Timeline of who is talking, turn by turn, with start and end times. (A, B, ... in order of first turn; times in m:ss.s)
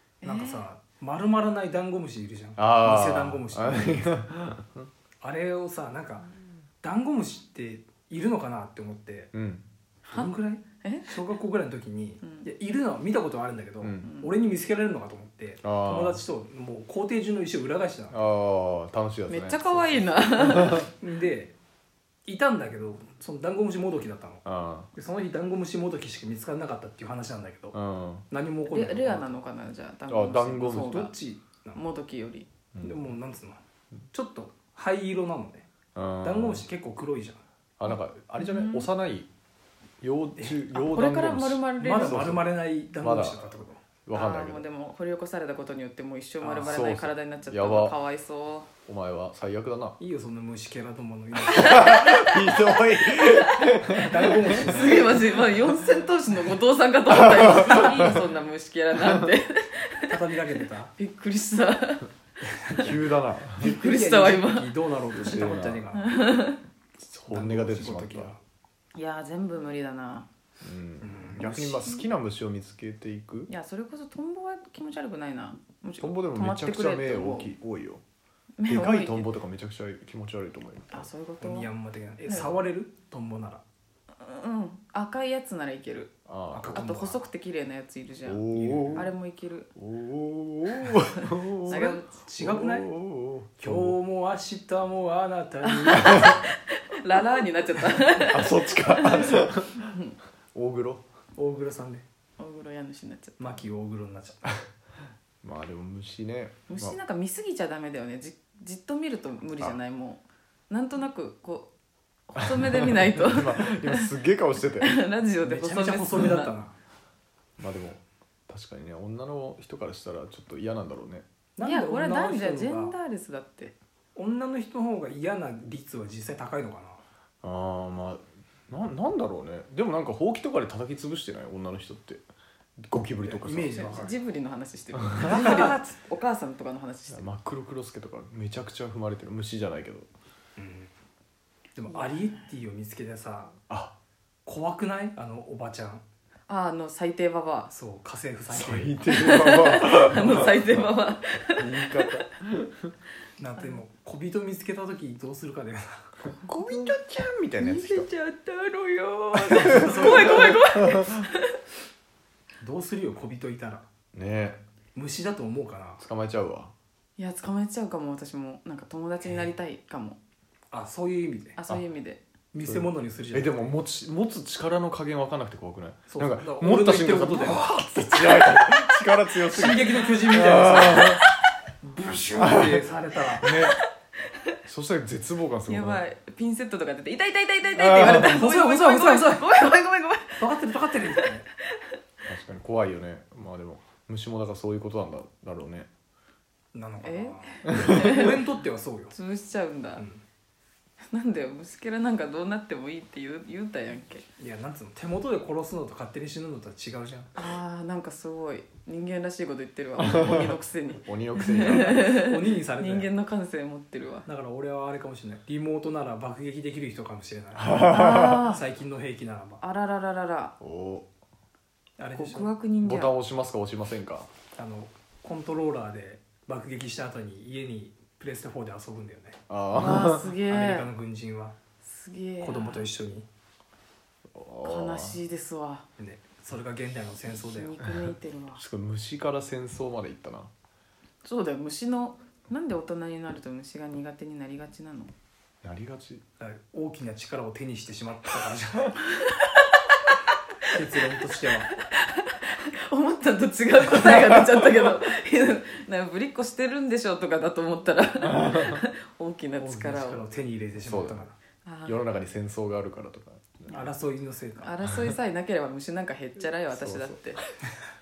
0:00.2-0:00.6 A
0:00.2-0:04.2 B
0:02.6-0:04.9 C
0:05.2-0:06.3 B
0:06.8-0:09.3 B
0:09.3-0:09.6 C
0:10.1-0:11.1 A
0:10.1-0:18.2 B
0:13.8-0:14.1 C
0:14.0-0:14.3 A
0:15.6-0:16.2 C
0:18.1-0:20.8 C
0:19.3-0:20.9 A
0:21.0-0:21.5 B
0:22.2-0:27.8 B
0:24.4-0:24.9 C
0:27.7-0:28.2 C
0:28.3-0:29.4 B
0:28.7-0:31.1 A
0:30.1-0:31.1 C
0:30.7-0:31.8 B
0:31.7-0:32.5 A
0:32.7-0:33.0 C
0:32.8-0:33.6 B
0:34.1-0:35.7 B
0:35.9-0:36.6 C
0:36.2-0:37.4 B
0:37.8-0:39.3 C
0:37.8-0:38.9 A
0:40.0-0:44.6 C
0:40.4-0:40.6 B
0:40.7-0:42.3 A
0:41.8-0:43.8 B
0:44.1-0:48.7 A
0:46.4-0:46.8 B
0:46.6-0:48.0 C
0:48.9-0:50.0 C
0:50.0-0:52.0 B
0:51.4-0:54.6 C
0:51.5-0:53.7 A
0:53.9-0:55.3 B
0:54.6-1:00.1 A
0:57.1-0:58.2 C
1:00.1-1:00.9 B
1:01.0-1:02.1 A
1:02.6-1:03.0 B
1:02.8-1:03.7 C
1:03.6-1:06.1 B
1:03.6-1:04.7 A
1:05.1-1:05.8 C
1:05.9-1:06.6 A
1:07.0-1:08.3 C
1:07.3-1:08.4 B
1:08.9-1:10.3 A
1:10.6-1:13.5 C
1:11.0-1:12.0 B
1:13.5-1:17.5 A
1:16.0-1:18.0 C
1:18.6-1:19.3 A
1:18.6-1:21.1 C
1:20.9-1:21.7 A
1:21.4-1:23.6 B
1:24.2-1:26.1 A
1:26.2-1:26.8 C
1:26.5-1:27.2 B
1:26.7-1:29.7 A
1:28.2-1:29.1 C
1:28.5-1:29.1 B
1:29.8-1:34.0 C
1:31.2-1:32.1 A
1:31.6-1:32.9 B
1:33.6-1:36.3 B
1:35.7-1:40.1 A
1:36.0-1:36.4 C
1:38.2-1:39.9 C
1:40.5-1:41.0 C
1:41.4-1:42.0 B
1:42.4-1:43.6 A
1:43.4-1:44.6 B
1:45.4-1:47.0 C
1:46.7-1:51.7 A
1:52.3-1:54.1 A
1:52.4-1:55.0 C
1:54.8-1:56.5 A
1:55.4-1:56.7 B
1:57.6-2:01.2 C
2:01.6-2:02.9 B
2:01.6-2:03.7 A
2:04.1-2:07.0 B
2:07.4-2:12.2 C
2:12.8-2:13.9 C
2:13.2-2:14.2 B
2:13.7-2:17.3 A
2:15.2-2:15.8 B
2:17.1-2:20.1 C
2:20.6-2:20.9 B
2:21.7-2:23.6 B
2:21.9-2:22.4 A
2:23.7-2:23.9 C
2:24.4-2:26.0 B
2:26.5-2:27.7 A
2:27.7-2:29.1 B
2:28.5-2:32.9 C
2:29.0-2:32.1 A
2:29.8-2:30.6 B
2:33.4-2:36.0 B
2:36.2-2:38.1 C
2:36.4-2:37.0 A
2:37.6-2:41.6 A
2:39.3-2:40.6 B
2:39.7-2:41.2 C
2:42.6-2:43.8 B
2:44.1-2:44.6 C
2:44.9-2:46.0 B
2:46.0-2:46.7 C
2:47.2-2:50.2 A
2:50.7-2:51.6 B
2:51.6-2:52.2 A
2:52.5-2:53.8 B
2:52.6-3:01.2 C
2:56.1-2:57.6 B
2:58.3-2:58.7 A
2:59.4-3:01.2 B
3:01.2-3:01.4 A
3:01.8-3:03.5 B
3:02.4-3:02.8 C
3:03.4-3:03.8 C
3:03.4-3:03.8 A
3:04.6-3:06.0 C
3:05.7-3:10.6 A
3:07.7-3:08.3 C
3:08.0-3:09.5 B
3:10.4-3:11.5 B
3:12.3-3:15.9 C
3:16.7-3:19.1 B
3:17.0-3:18.4 A
3:19.1-3:20.0 A
3:20.0-3:20.2 B
3:21.1-3:24.2 A
3:24.4-3:27.4 B
3:27.4-3:34.2 A
3:30.1-3:32.2 C
3:31.6-3:33.1 B
3:34.2-3:39.6 B
3:37.6-3:38.4 C
3:37.8-3:38.6 A
3:39.6-3:40.6 A
3:40.6-3:41.1 C
3:42.0-3:42.5 B
3:42.1-3:43.1 A
3:42.8-3:44.3 C
3:44.5-3:49.4 B
3:49.5-3:50.3 C
3:49.7-3:50.9 A
3:50.0-3:51.5 B
3:51.8-3:52.8 A
3:52.4-3:53.3 B
3:54.3-3:55.2 C
3:54.6-3:55.8 A
3:56.0-3:57.7 B
3:57.3-3:58.6 A
3:58.6-4:00.5 C
4:01.2-4:05.1 A
4:05.6-4:06.2 C
4:06.4-4:09.0 B
4:09.1-4:10.7 A
4:10.6-4:11.7 B
4:11.9-4:20.2 A
4:19.6-4:21.4 B
4:20.8-4:21.2 C
4:21.6-4:22.0 A
4:21.8-4:23.7 C
4:23.7-4:24.7 B
4:24.6-4:27.4 A
4:26.7-4:27.2 C